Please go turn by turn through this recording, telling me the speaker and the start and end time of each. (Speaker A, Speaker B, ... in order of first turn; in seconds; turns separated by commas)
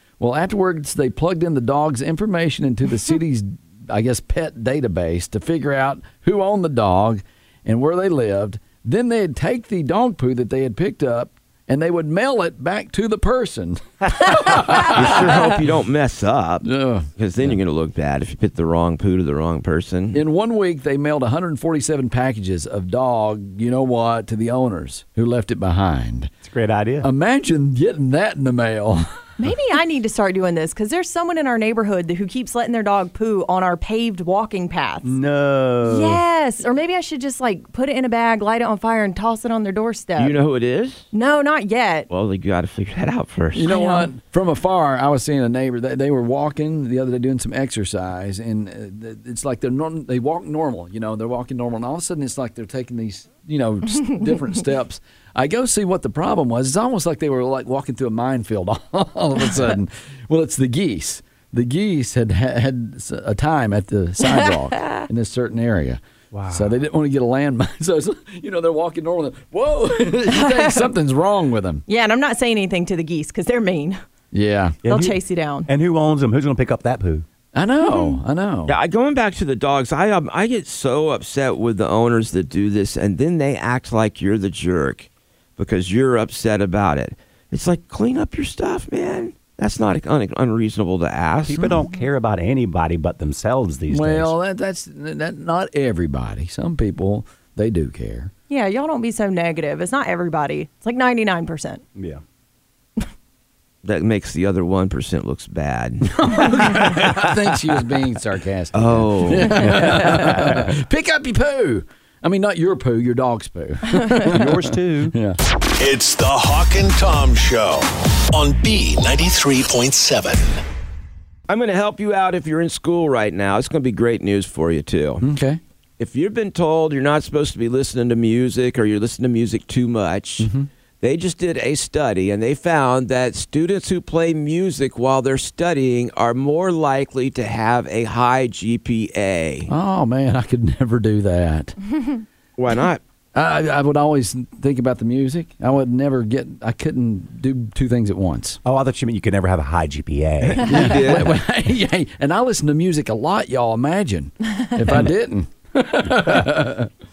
Speaker A: 0.2-15.5, Speaker B: 14.7-20.2, Speaker A: 16.6-17.1, Speaker A: 20.1-26.3, Speaker C: 26.4-27.1, Speaker A: 27.0-29.3, Speaker D: 29.4-35.1, Speaker C: 35.0-36.2, Speaker D: 35.8-40.3, Speaker B: 40.2-41.1, Speaker D: 41.1-42.1, Speaker B: 42.1-43.7, Speaker A: 43.5-71.8, Speaker D: 43.7-44.1, Speaker C: 66.3-66.7, Speaker D: 70.3-70.8, Speaker D: 71.9-74.0, Speaker A: 74.3-74.8, Speaker C: 74.8-77.2, Speaker D: 74.8-75.7, Speaker A: 77.5-78.7, Speaker B: 78.7-91.7, Speaker C: 91.5-94.3, Speaker A: 93.9-98.3, Speaker D: 98.5-101.8, Speaker C: 102.0-102.2, Speaker B: 103.8-107.2, Speaker A: 106.1-115.4, Speaker B: 108.7-110.3, Speaker C: 109.6-110.7, Speaker C: 114.2-115.1, Speaker E: 115.8-120.6, Speaker B: 121.5-125.2, Speaker A: 125.2-125.6, Speaker B: 126.0-130.5, Speaker A: 130.4-130.7, Speaker B: 131.0-139.7, Speaker A: 139.7-142.0, Speaker B: 142.6-143.0, Speaker A: 143.3-148.6, Speaker C: 148.6-150.9, Speaker B: 150.6-151.4, Speaker A: 150.6-156.9